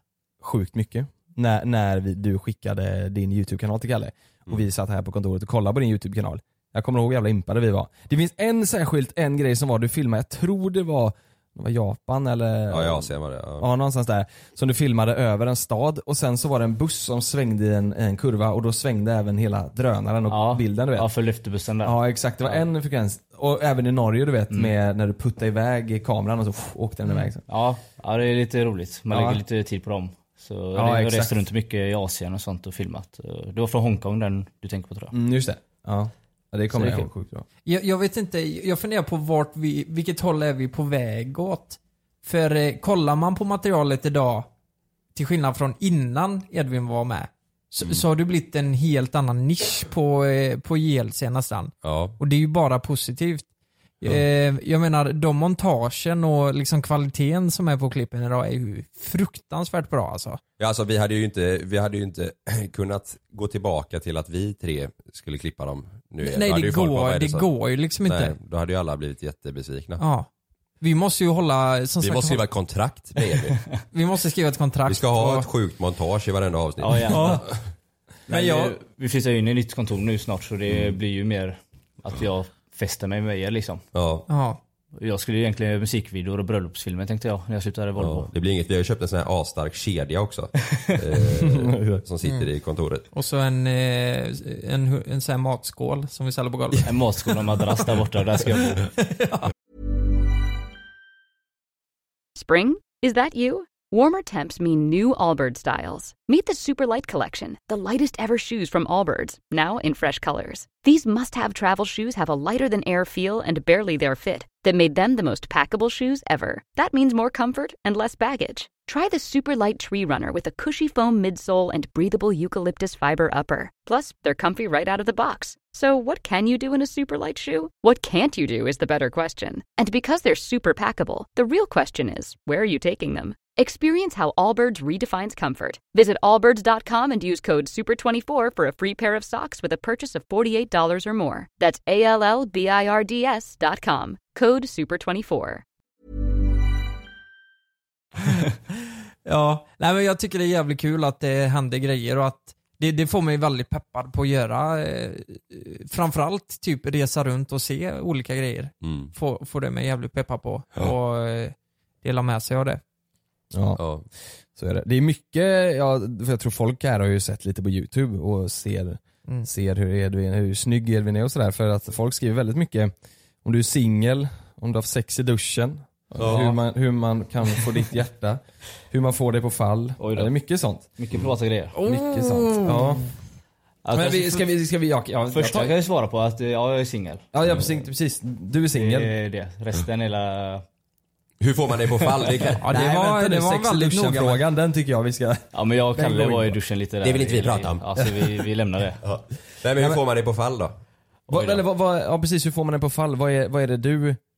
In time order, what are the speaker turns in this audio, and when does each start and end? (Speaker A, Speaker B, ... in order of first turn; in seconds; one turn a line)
Speaker A: 0.4-21.1
Speaker B: 12.7-13.7
Speaker C: 20.3-22.6
Speaker A: 21.8-27.4
Speaker C: 27.5-35.1
Speaker A: 29.1-29.4
Speaker A: 30.7-31.4
Speaker A: 35.1-37.4
Speaker C: 36.7-37.1
Speaker D: 37.6-44.5
Speaker D: 45.1-53.5
Speaker B: 51.8-52.1
Speaker D: 54.0-60.4
Speaker B: 60.6-67.5
Speaker D: 66.2-68.3
Speaker B: 68.0-70.0
Speaker D: 70.0-70.3
Speaker D: 70.8-72.4
Speaker B: 72.0-73.6
Speaker D: 73.9-75.5
Speaker B: 74.9-77.6
Speaker C: 76.8-77.5
Speaker D: 77.1-77.4
Speaker C: 78.3-83.8
Speaker D: 78.3-78.7
Speaker B: 80.7-80.9
Speaker B: 83.9-84.3
Speaker D: 84.3-84.6
Speaker C: 85.0-88.3
Speaker B: 88.0-93.0
Speaker A: 91.3-92.0
Speaker D: 93.1-96.9
Speaker C: 96.8-98.8
Speaker D: 99.0-99.5
Speaker E: 102.3-145.6
Speaker D: 149.2-162.8
Speaker B: 158.8-159.1
Speaker A: 163.5-163.8
Speaker B: 163.8-164.1
Speaker A: 164.5-172.9
Speaker A: 173.4-180.9
Speaker B: 176.2-176.5
Speaker C: 176.2-176.6
Speaker C: 180.0-180.3
Speaker C: 181.0-181.7
Speaker D: 181.8-183.0
Speaker A: 181.8-183.1
Speaker C: 183.8-184.5
Speaker A: 183.9-185.8
Speaker C: 185.3-187.3
Speaker A: 187.3-189.1
Speaker C: 188.7-190.6
Speaker B: 191.4-192.7
Speaker D: 192.6-194.4
Speaker A: 192.7-196.6
Speaker C: 195.5-199.0
Speaker B: 197.0-198.0
Speaker B: 199.0-200.7
Speaker A: 199.7-200.0
Speaker C: 201.3-201.6
Speaker A: 201.3-204.2